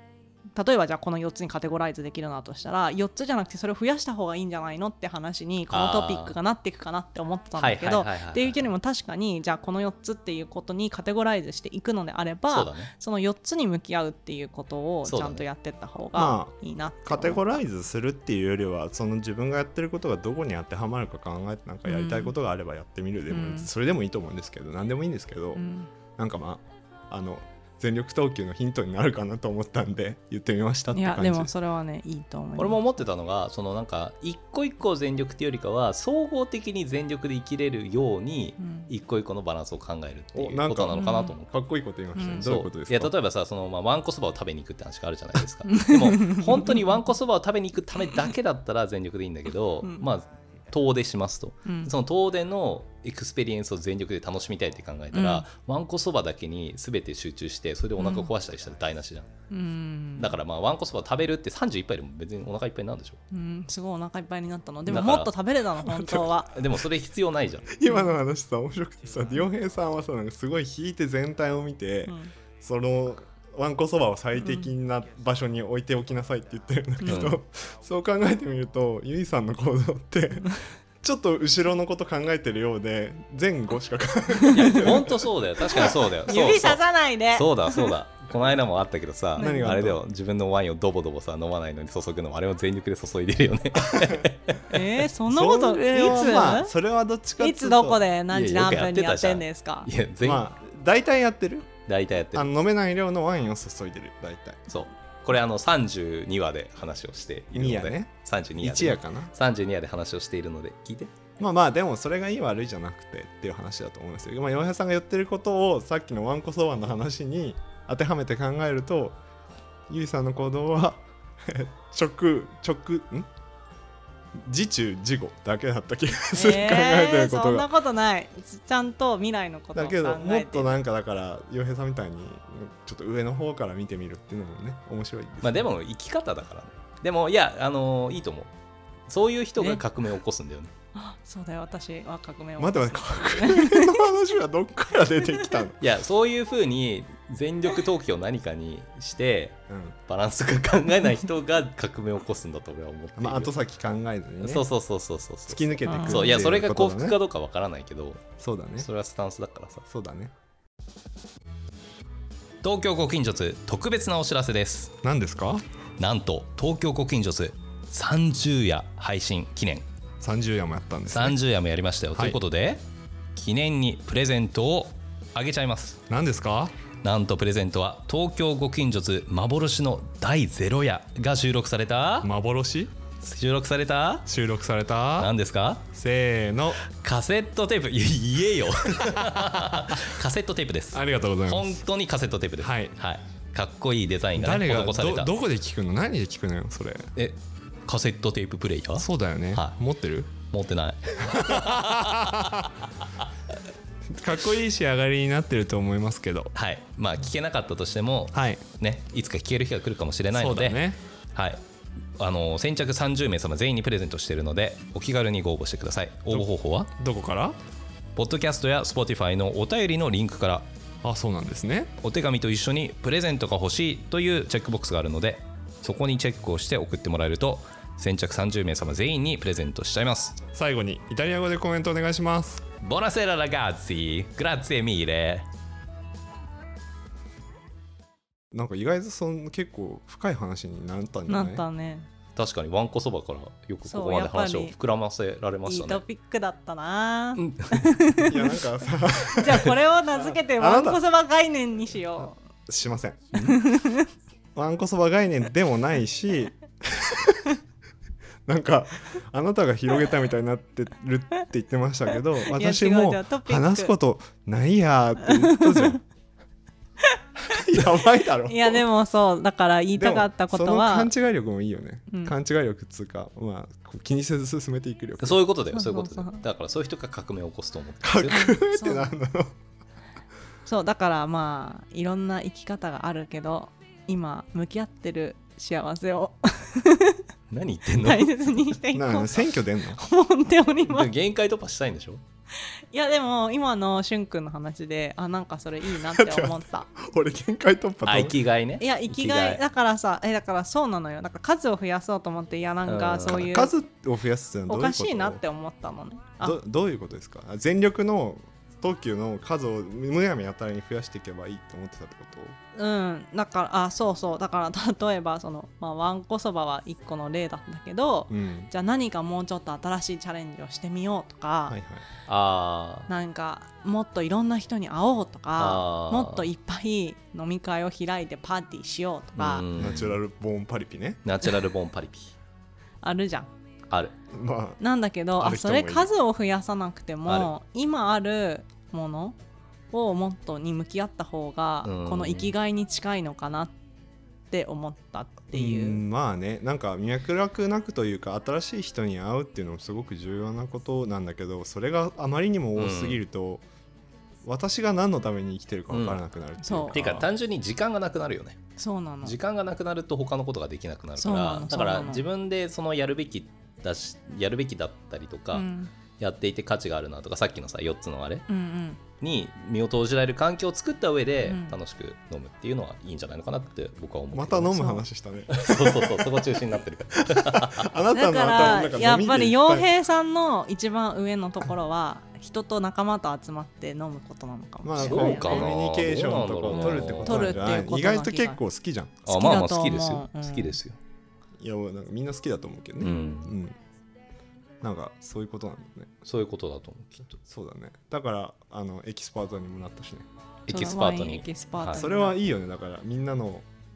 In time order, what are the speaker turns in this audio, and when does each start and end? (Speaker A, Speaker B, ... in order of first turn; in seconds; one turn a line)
Speaker A: 0.6-17.6
Speaker B: 5.7-6.3
Speaker B: 7.6-8.6
Speaker B: 12.5-12.9
Speaker B: 15.1-15.4
Speaker C: 16.1-25.6
Speaker A: 21.9-22.3
Speaker A: 23.3-23.7
Speaker A: 25.5-25.9
Speaker C: 26.2-31.5
Speaker A: 30.9-33.0
Speaker B: 32.6-41.5
Speaker A: 38.6-38.9
Speaker C: 40.3-43.1
Speaker A: 40.9-41.3
Speaker A: 42.2-42.4
Speaker B: 42.4-59.3
Speaker A: 45.7-46.8
Speaker A: 51.6-51.9
Speaker A: 55.1-55.5
Speaker A: 58.0-58.3
Speaker A: 59.5-60.4
Speaker B: 60.2-63.2
Speaker A: 63.3-66.5
Speaker B: 64.9-65.3
Speaker C: 65.8-66.3
Speaker B: 66.5-67.7
Speaker C: 67.7-86.0
Speaker A: 67.8-68.1
Speaker A: 72.0-72.3
Speaker A: 74.4-74.7
Speaker A: 77.0-77.3
Speaker B: 77.0-77.4
Speaker A: 84.4-84.8
Speaker B: 84.5-94.8
Speaker A: 85.8-87.9
Speaker C: 89.3-90.0
Speaker A: 89.4-89.8
Speaker A: 94.7-96.7
Speaker C: 95.3-98.0
Speaker A: 97.4-99.9
Speaker B: 98.3-100.5
Speaker C: 100.2-101.7
Speaker B: 101.9-102.5
Speaker C: 102.3-104.6
Speaker B: 104.7-111.1
Speaker C: 107.5-109.3
Speaker C: 111.4-119.2
Speaker C: 119.9-123.3
Speaker C: 124.4-127.7
Speaker A: 126.3-130.8
Speaker C: 129.7-135.7
Speaker B: 135.4-138.5
Speaker B: 139.1-140.7
Speaker A: 140.9-144.1
Speaker C: 142.6-145.8
Speaker B: 145.8-153.5
Speaker C: 149.7-149.9
Speaker C: 153.2-154.7
Speaker B: 154.4-159.8
Speaker C: 155.5-157.2
Speaker A: 155.8-156.4
Speaker C: 158.4-158.9
Speaker C: 159.9-160.3
Speaker B: 162.6-164.9
Speaker C: 165.0-165.6
Speaker B: 166.0-169.8
Speaker C: 170.2-171.4
Speaker B: 171.1-172.8
Speaker B: 173.3-176.0
Speaker C: 176.1-176.7
Speaker B: 177.0-182.3
Speaker C: 182.2-182.9
Speaker B: 183.2-184.3
Speaker C: 184.2-185.3
Speaker B: 185.2-185.8
Speaker C: 185.9-186.8
Speaker B: 186.8-195.3
Speaker C: 189.0-189.8
Speaker C: 190.9-191.8
Speaker C: 192.6-192.9
Speaker C: 194.3-197.1
Speaker B: 197.2-199.8
Speaker C: 199.0-200.3
Speaker B: 200.5-202.7
Speaker C: 201.2-202.7
Speaker C: 204.1-206.5
Speaker B: 206.5-210.8
Speaker C: 208.3-208.6
Speaker C: 210.3-211.0
Speaker B: 211.3-211.6
Speaker B: 212.2-216.9
Speaker C: 216.3-217.6
Speaker B: 218.2-220.7
Speaker C: 221.0-221.9
Speaker B: 222.0-230.4
Speaker C: 230.5-232.6
Speaker B: 232.8-235.4
Speaker C: 238.5-241.6
Speaker A: 241.3-242.1
Speaker B: 242.3-246.0
Speaker A: 243.8-244.7
Speaker A: 245.7-248.6
Speaker B: 247.4-247.8
Speaker C: 248.2-249.8
Speaker A: 249.3-252.4
Speaker C: 250.5-251.0
Speaker C: 252.7-253.5
Speaker A: 253.4-254.1
Speaker C: 254.5-257.6
Speaker C: 258.4-266.0
Speaker A: 262.5-263.9
Speaker A: 265.2-266.0
Speaker C: 267.4-268.8
Speaker A: 268.5-271.1
Speaker C: 270.0-275.4
Speaker A: 272.1-272.3
Speaker B: 275.2-278.5
Speaker A: 275.7-276.4
Speaker C: 278.0-279.5
Speaker A: 278.3-279.1
Speaker A: 280.6-287.2
Speaker B: 287.5-288.6
Speaker A: 287.9-291.1
Speaker C: 288.9-290.0
Speaker B: 290.8-292.2
Speaker A: 292.7-296.9
Speaker C: 295.9-298.4
Speaker B: 298.0-299.6
Speaker A: 298.8-303.7
Speaker B: 302.9-303.5
Speaker C: 303.3-305.4
Speaker A: 304.7-306.6
Speaker C: 306.4-312.6
Speaker A: 312.7-321.8
Speaker C: 318.3-318.7
Speaker C: 321.7-322.0
Speaker B: 322.3-323.1
Speaker A: 323.1-329.7
Speaker B: 325.6-326.5
Speaker B: 329.4-330.2
Speaker C: 329.7-331.2
Speaker B: 331.2-332.4
Speaker A: 333.0-333.5
Speaker C: 334.3-334.8
Speaker A: 334.8-339.4
Speaker C: 335.4-336.1
Speaker A: 339.9-343.7
Speaker B: 341.8-342.5
Speaker A: 344.5-346.0
Speaker C: 345.5-353.6
Speaker B: 352.8-353.2
Speaker C: 354.4-357.3
Speaker B: 355.9-356.2
Speaker A: 356.6-357.2
Speaker B: 356.9-358.6
Speaker A: 358.8-359.4
Speaker B: 359.2-365.6
Speaker A: 361.2-362.2
Speaker A: 365.5-365.9
Speaker B: 366.2-368.4
Speaker A: 368.5-369.0
Speaker B: 369.2-375.0
Speaker A: 371.4-371.8
Speaker C: 374.3-376.6
Speaker B: 375.5-377.9
Speaker C: 377.1-379.9
Speaker A: 378.1-385.7
Speaker C: 384.8-389.2
Speaker B: 385.0-387.6
Speaker A: 386.7-388.6
Speaker B: 389.2-391.0
Speaker A: 389.3-390.8
Speaker C: 391.6-393.8
Speaker B: 393.0-393.5
Speaker C: 394.8-396.1
Speaker B: 396.2-397.3
Speaker C: 397.4-400.3
Speaker B: 400.7-402.0
Speaker A: 400.7-402.4
Speaker C: 401.9-403.6